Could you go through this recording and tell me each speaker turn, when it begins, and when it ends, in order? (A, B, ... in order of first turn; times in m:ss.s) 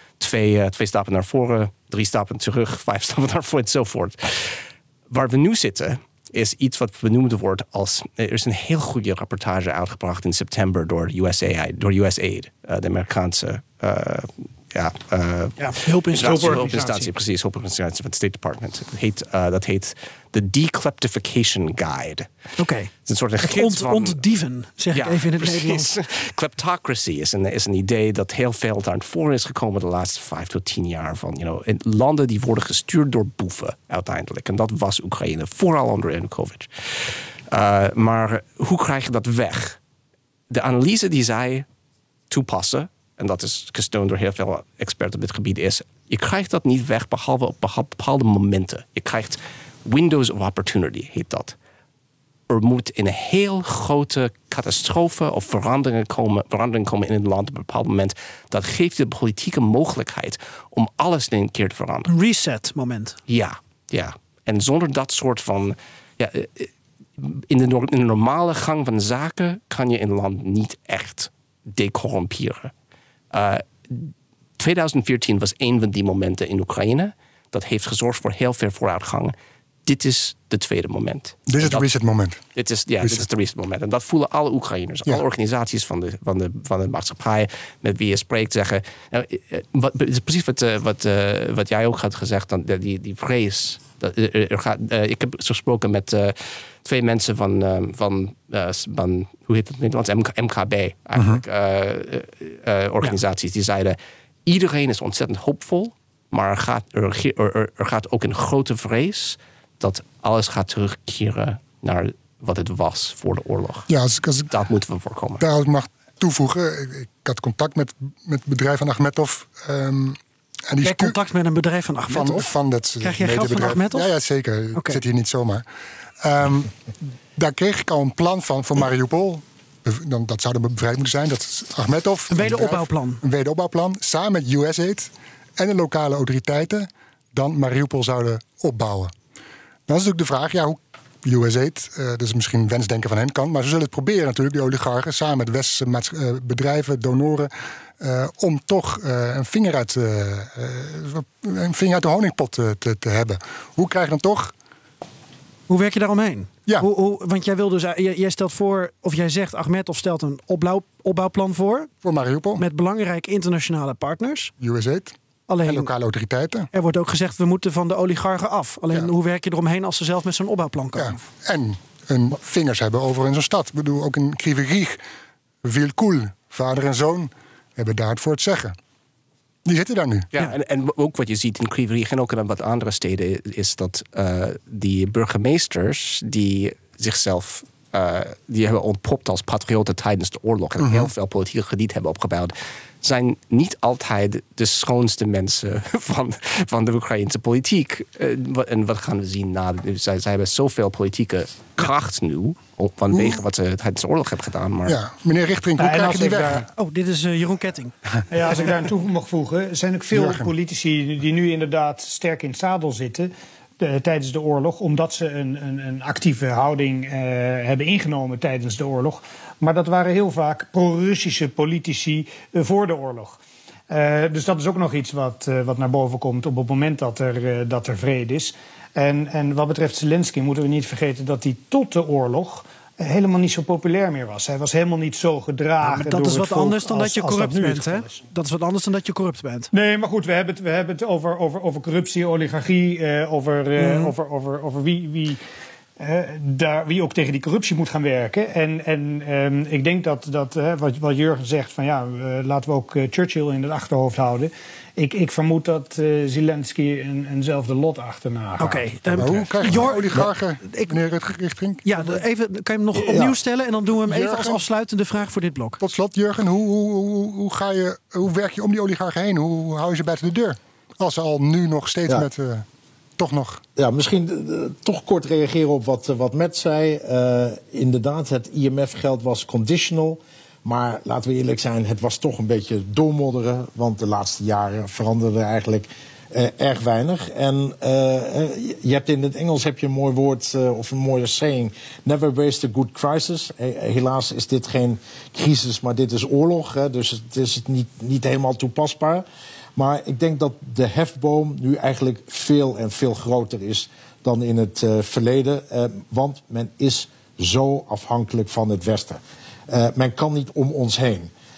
0:00.2-0:22.3 A
0:15.6-0:17.1 B
0:16.2-0:17.0 C
0:22.6-0:22.9 B
0:23.1-0:24.2 A
0:23.4-0:25.9 B
0:24.9-0:39.8 A
0:40.5-0:41.7 A
0:42.3-0:51.6 A
0:52.5-1:02.1 A
1:02.1-1:03.2 B
1:03.3-1:12.7 A
1:13.3-1:19.3 A
1:19.9-1:21.9 A
1:21.5-1:22.4 D
1:22.6-1:53.9 A
1:41.2-1:41.4 D
1:53.9-1:54.5 D
1:54.5-1:55.4 A
1:55.4-2:01.2 D
2:00.8-2:02.5 B
2:02.1-2:05.6 D
2:03.0-2:04.1 B
2:04.8-2:05.0 B
2:06.2-2:06.7 D
2:07.4-2:19.1 D
2:12.3-2:13.2 B
2:19.9-2:34.5 D
2:35.7-2:41.9 B
2:42.0-2:42.6 D
2:42.6-2:44.5 B
2:44.6-2:46.7 D
2:45.5-2:45.9 B
2:46.7-2:51.2 B
2:51.0-2:55.0 D
2:55.6-2:58.8 D
2:59.6-3:00.3 D
3:00.3-3:25.0 A
3:10.8-3:11.1 D
3:23.1-3:23.4 D
3:24.9-3:26.7 D
3:25.8-3:26.7 C
3:26.8-3:28.0 B
3:28.3-3:43.4 C
3:30.1-3:30.5 D
3:43.9-3:58.2 C
3:55.8-3:59.7 B
3:59.7-4:05.4 C
4:03.8-4:04.1 B
4:06.0-4:19.2 C
4:18.6-4:21.0 B
4:19.2-4:22.2 D
4:21.8-4:25.8 B
4:23.1-4:23.4 E
4:24.1-4:24.6 D
4:25.8-4:32.6 D
4:33.2-4:33.6 D
4:33.8-4:59.2 E
4:59.8-5:11.3 E